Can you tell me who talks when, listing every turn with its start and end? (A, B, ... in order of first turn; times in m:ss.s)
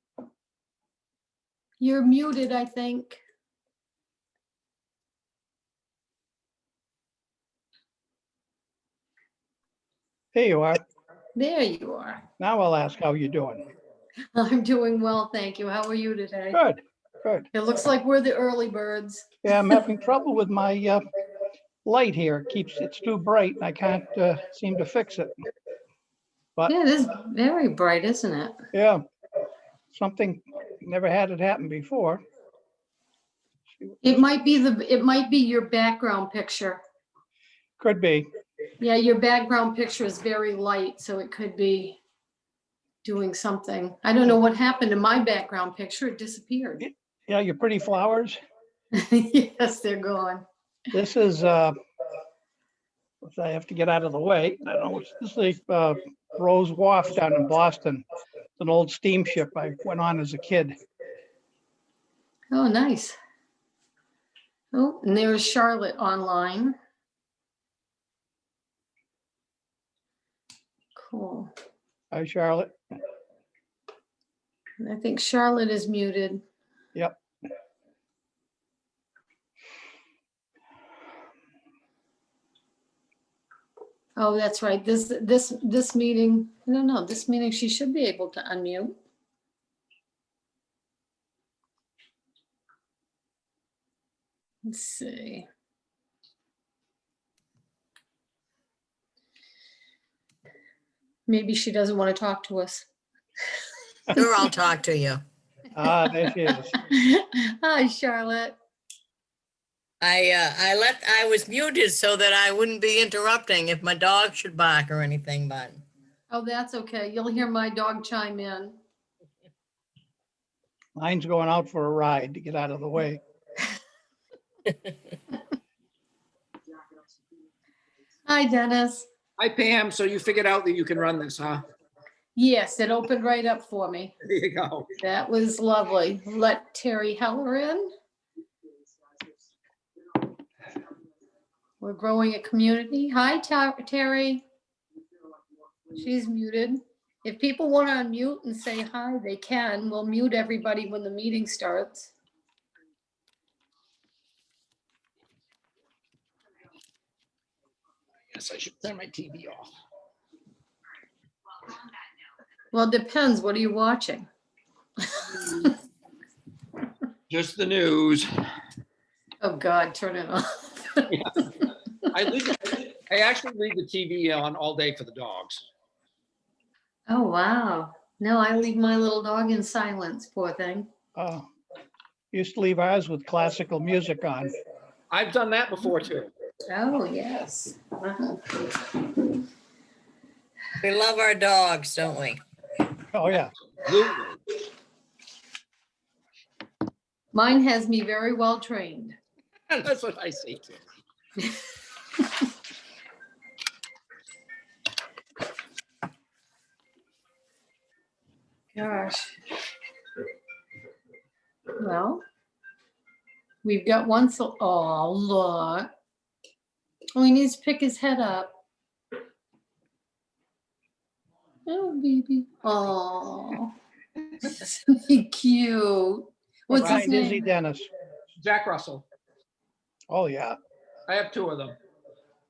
0:01.8-0:03.2 A
0:10.3-0:10.8 B
0:11.3-0:12.2 A
0:12.4-0:13.6 B
0:14.3-0:16.6 A
0:16.5-0:17.5 B
0:17.5-0:19.3 A
0:19.4-0:21.0 B
0:21.8-0:25.3 B
0:26.7-0:28.6 A
0:28.7-0:29.0 B
0:29.9-0:32.2 B
0:34.0-0:36.8 A
0:37.8-0:38.3 B
0:38.8-0:42.0 A
0:43.0-0:46.9 A
0:46.8-0:48.4 B
0:48.9-0:50.4 A
0:50.9-0:51.7 B
0:53.2-0:58.0 B
0:58.6-1:00.7 B
1:02.5-1:03.2 A
1:04.7-1:06.7 A
1:11.0-1:11.5 A
1:12.1-1:12.7 B
1:14.8-1:16.4 A
1:24.2-1:29.0 A
1:34.6-1:35.4 A
1:41.3-1:42.9 A
1:44.1-1:45.2 C
1:45.7-1:46.7 B
1:46.7-1:48.6 A
1:50.0-1:55.8 C
1:56.3-1:58.8 A
2:01.0-2:03.2 B
2:08.3-2:09.1 A
2:09.4-2:11.6 D
2:12.3-2:14.1 A
2:14.2-2:14.9 D
2:15.0-2:17.9 A
2:21.8-2:24.4 A
2:25.9-2:32.1 A
2:38.3-2:39.7 D
2:42.7-2:44.3 A
2:45.3-2:45.7 A
2:47.3-2:48.3 D
2:49.4-2:51.1 A
2:51.1-2:55.6 D
2:57.1-3:00.9 A
3:01.2-3:01.5 B
3:02.3-3:04.5 B
3:05.1-3:06.3 D
3:06.7-3:08.7 A
3:10.8-3:12.4 C
3:13.1-3:13.5 B
3:13.8-3:14.4 D
3:17.3-3:19.2 A
3:19.7-3:20.8 D
3:28.7-3:29.4 A
3:31.8-3:32.2 A
3:33.6-3:35.9 A
3:37.1-3:38.5 A
3:41.6-3:43.7 A
3:44.4-3:47.5 A
3:46.7-3:47.9 B
3:48.4-3:49.0 D
3:50.1-3:50.6 B
3:51.1-3:51.8 D